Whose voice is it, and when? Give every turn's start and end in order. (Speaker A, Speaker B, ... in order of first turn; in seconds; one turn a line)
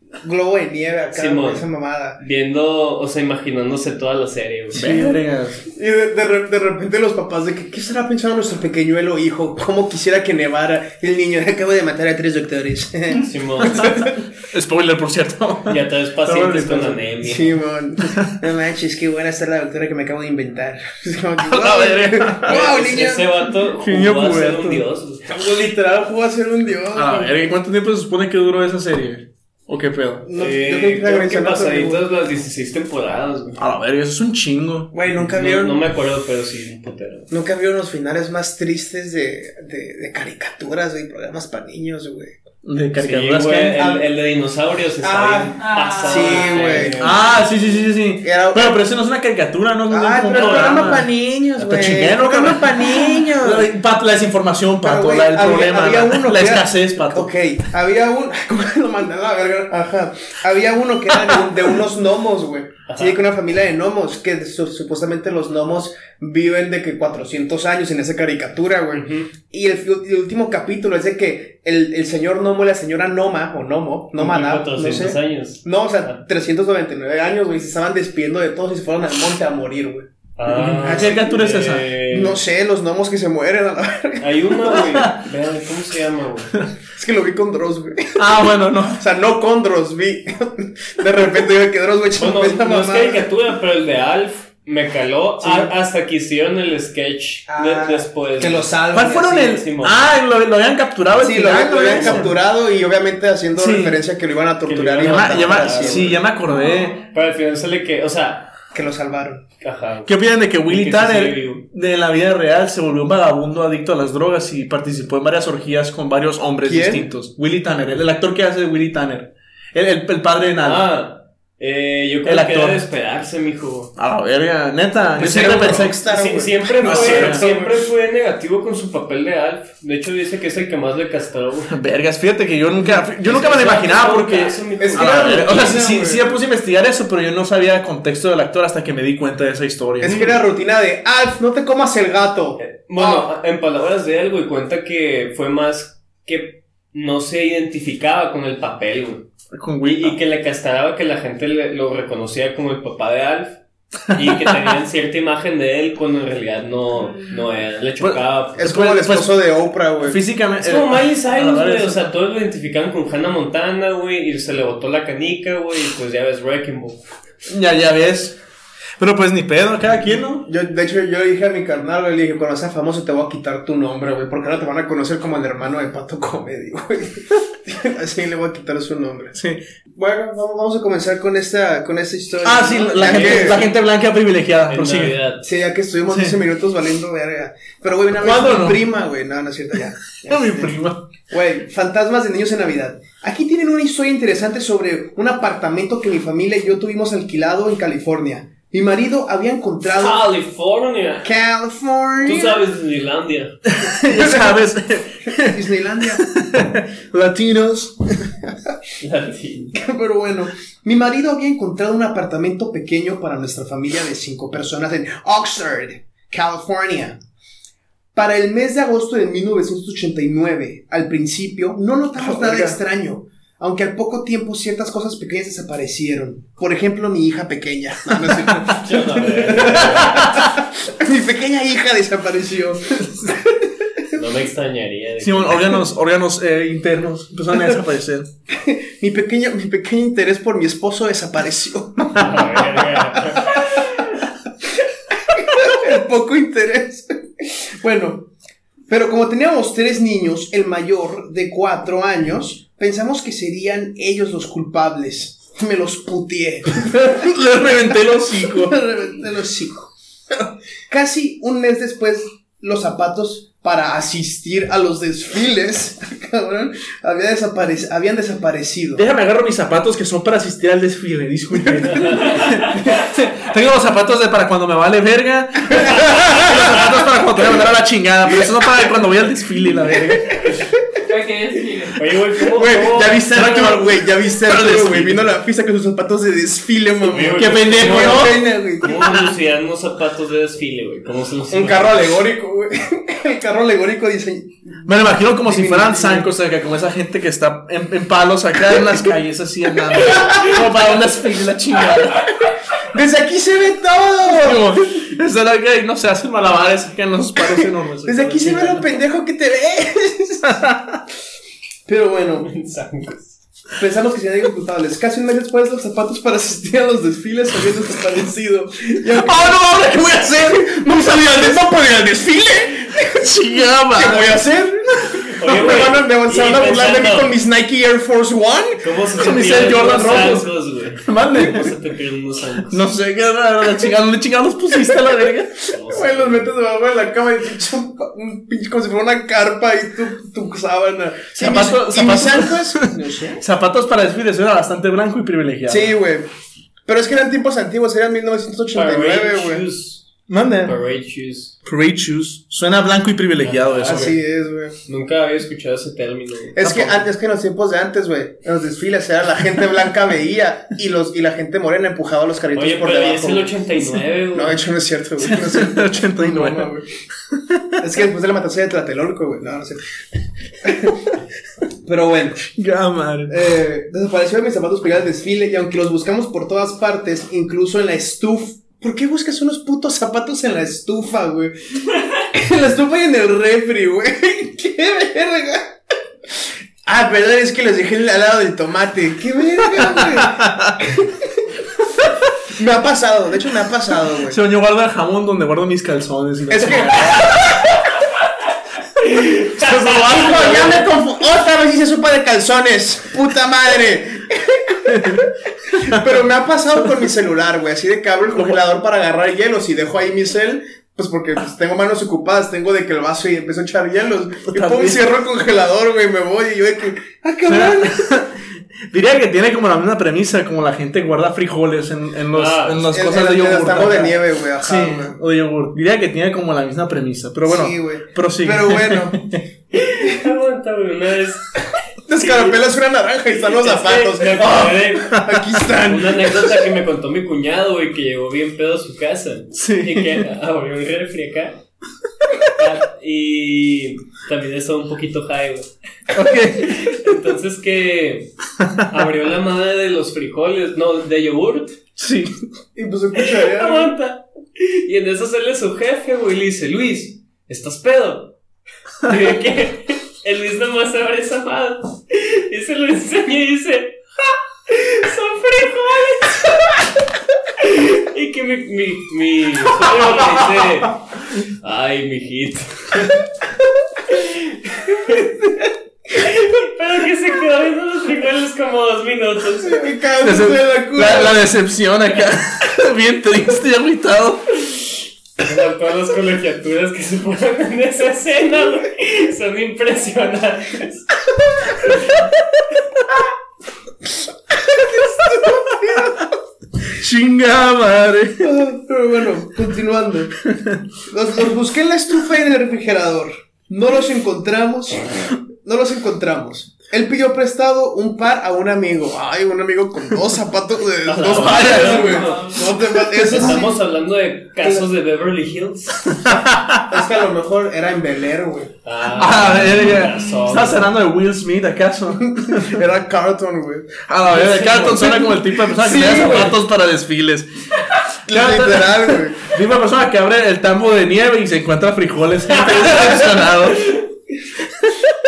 Speaker A: 0.2-2.2
Speaker B: 1.1-1.6
Speaker B: 2.2-4.8
Speaker C: 4.7-5.6
Speaker A: 4.8-14.2
Speaker B: 13.2-13.9
Speaker C: 14.5-17.0
Speaker B: 15.7-17.6
Speaker A: 17.2-23.5
Speaker C: 21.4-22.6
Speaker B: 22.4-25.3
Speaker C: 23.8-24.8
Speaker A: 25.3-27.3
Speaker C: 26.9-30.2
Speaker A: 30.3-32.0
Speaker B: 30.4-33.6
Speaker C: 33.6-34.9
Speaker A: 34.9-35.8
Speaker B: 35.1-37.3
Speaker A: 37.3-42.4
Speaker C: 42.6-43.8
Speaker B: 43.0-47.2
Speaker A: 43.8-44.0
Speaker A: 45.0-47.0
Speaker D: 45.6-47.1
Speaker C: 47.0-57.3
Speaker A: 48.2-48.8
Speaker A: 49.9-53.7
Speaker B: 50.3-51.0
Speaker A: 54.8-80.1
Speaker B: 62.9-63.2
Speaker B: 68.9-69.3
Speaker B: 74.2-76.2
Speaker B: 80.4-82.4
Speaker C: 80.5-81.9
Speaker A: 82.1-84.8
Speaker B: 84.2-86.6
Speaker C: 84.8-85.2
Speaker A: 86.9-88.3
Speaker C: 88.2-89.0
Speaker A: 88.9-93.2
Speaker B: 92.2-98.7
Speaker A: 95.4-95.7
Speaker A: 97.5-99.6
Speaker C: 98.9-102.3
Speaker B: 99.3-100.0
Speaker A: 101.2-106.2
Speaker B: 101.9-102.3
Speaker C: 103.5-104.0
Speaker B: 104.7-106.2
Speaker C: 105.0-107.0
Speaker D: 106.5-107.0
Speaker B: 107.1-108.5
Speaker A: 108.7-109.4
Speaker B: 109.6-110.1
Speaker C: 110.1-120.8
Speaker B: 110.7-111.6
Speaker A: 116.6-117.1
Speaker B: 120.6-123.9
Speaker C: 122.3-122.8
Speaker C: 124.0-126.0
Speaker A: 125.2-127.9
Speaker B: 125.2-131.7
Speaker C: 126.8-127.5
Speaker C: 131.7-140.2
Speaker B: 133.2-135.7
Speaker A: 134.8-136.4
Speaker A: 140.0-143.3
Speaker B: 142.6-149.2
Speaker C: 149.5-150.2
Speaker B: 149.8-158.7
Speaker C: 154.1-154.5
Speaker C: 158.0-159.3
Speaker A: 158.6-160.2
Speaker C: 160.0-162.1
Speaker B: 160.6-167.0
Speaker C: 167.5-168.4
Speaker C: 169.0-170.5
Speaker A: 170.5-179.3
Speaker C: 179.3-179.6
Speaker A: 179.9-183.6
Speaker C: 182.4-185.2
Speaker B: 182.9-183.7
Speaker B: 184.7-185.4
Speaker A: 185.4-190.8
Speaker C: 186.1-186.4
Speaker C: 188.2-188.8
Speaker C: 190.3-191.0
Speaker A: 191.3-200.3
Speaker B: 199.9-201.3
Speaker A: 201.2-202.7
Speaker B: 202.2-203.5
Speaker C: 203.7-208.0
Speaker A: 204.1-204.6
Speaker A: 205.3-206.3
Speaker B: 209.0-209.8
Speaker A: 209.8-217.2
Speaker A: 218.2-233.7
Speaker C: 222.2-222.8
Speaker C: 228.3-228.7
Speaker B: 228.8-230.3
Speaker B: 234.1-235.8
Speaker C: 235.2-238.3
Speaker A: 238.5-243.8
Speaker B: 242.2-243.8
Speaker A: 245.3-248.3
Speaker A: 248.9-259.9
Speaker C: 256.9-258.8
Speaker A: 260.9-269.0
Speaker C: 268.9-280.4
Speaker B: 272.0-272.4
Speaker A: 275.8-276.9
Speaker D: 281.0-282.0
Speaker B: 281.9-283.3
Speaker A: 282.5-289.0
Speaker C: 283.0-285.3
Speaker B: 287.1-292.1
Speaker C: 287.3-288.5
Speaker A: 291.5-294.8
Speaker C: 294.9-302.3
Speaker A: 295.4-296.3
Speaker A: 300.1-300.4
Speaker A: 302.9-304.8
Speaker C: 304.3-308.9
Speaker A: 307.5-310.7
Speaker C: 310.4-311.0
Speaker A: 311.9-312.5
Speaker B: 312.4-313.4
Speaker A: 313.8-323.3
Speaker C: 319.1-321.7
Speaker C: 323.1-324.4
Speaker A: 323.9-328.8
Speaker B: 325.3-327.3
Speaker B: 328.8-332.8
Speaker C: 329.1-330.5
Speaker C: 331.0-331.8
Speaker C: 332.7-335.7
Speaker B: 335.7-336.5
Speaker A: 335.9-343.4
Speaker C: 341.4-342.9
Speaker C: 343.4-345.9
Speaker A: 345.7-346.3
Speaker A: 346.9-349.6
Speaker B: 348.7-350.1
Speaker C: 350.3-350.7
Speaker B: 350.6-351.6
Speaker C: 351.6-354.1
Speaker B: 353.4-354.2
Speaker A: 353.8-354.8
Speaker B: 354.9-356.6
Speaker A: 356.6-363.5
Speaker C: 356.6-357.0
Speaker B: 362.6-364.6
Speaker A: 364.3-366.9
Speaker C: 365.2-366.7
Speaker C: 367.3-367.7
Speaker A: 367.8-369.8
Speaker A: 370.6-371.1
Speaker A: 371.8-372.5
Speaker C: 372.6-373.3
Speaker A: 373.3-385.7
Speaker A: 386.9-391.3
Speaker C: 389.8-390.8
Speaker A: 392.5-394.4
Speaker C: 394.2-397.4
Speaker A: 396.5-397.7
Speaker B: 399.0-400.8
Speaker A: 399.6-418.2
Speaker C: 399.7-400.7
Speaker C: 404.9-405.2
Speaker C: 414.5-415.0
Speaker C: 417.5-429.4
Speaker B: 422.3-422.8
Speaker A: 422.8-425.2
Speaker A: 427.4-429.2
Speaker B: 429.8-431.5
Speaker A: 432.1-436.6
Speaker B: 433.5-435.2
Speaker C: 435.1-435.4
Speaker B: 435.8-441.6
Speaker C: 439.6-440.2
Speaker B: 442.6-445.7
Speaker C: 446.1-447.1
Speaker B: 446.5-448.3
Speaker C: 448.6-448.9
Speaker B: 448.9-451.8
Speaker C: 452.0-452.3
Speaker A: 452.8-453.9
Speaker B: 453.2-458.4
Speaker B: 459.0-464.0
Speaker B: 464.7-466.8
Speaker B: 467.6-473.2
Speaker C: 470.1-470.4
Speaker B: 474.1-475.5
Speaker B: 476.1-479.9
Speaker A: 479.6-481.4
Speaker C: 480.2-484.5
Speaker B: 485.4-491.1
Speaker B: 491.7-492.1
Speaker A: 494.5-496.3
Speaker C: 496.9-498.5
Speaker A: 498.4-500.3
Speaker C: 500.5-500.8
Speaker A: 501.1-513.8
Speaker B: 511.1-512.6
Speaker C: 511.2-512.3
Speaker D: 511.6-512.6
Speaker B: 513.3-516.1
Speaker A: 514.6-514.9
Speaker C: 516.1-517.0
Speaker A: 516.8-518.7
Speaker B: 518.9-520.9
Speaker C: 519.2-522.8
Speaker A: 522.2-526.6
Speaker C: 524.1-527.5
Speaker A: 528.3-529.5
Speaker C: 528.3-533.9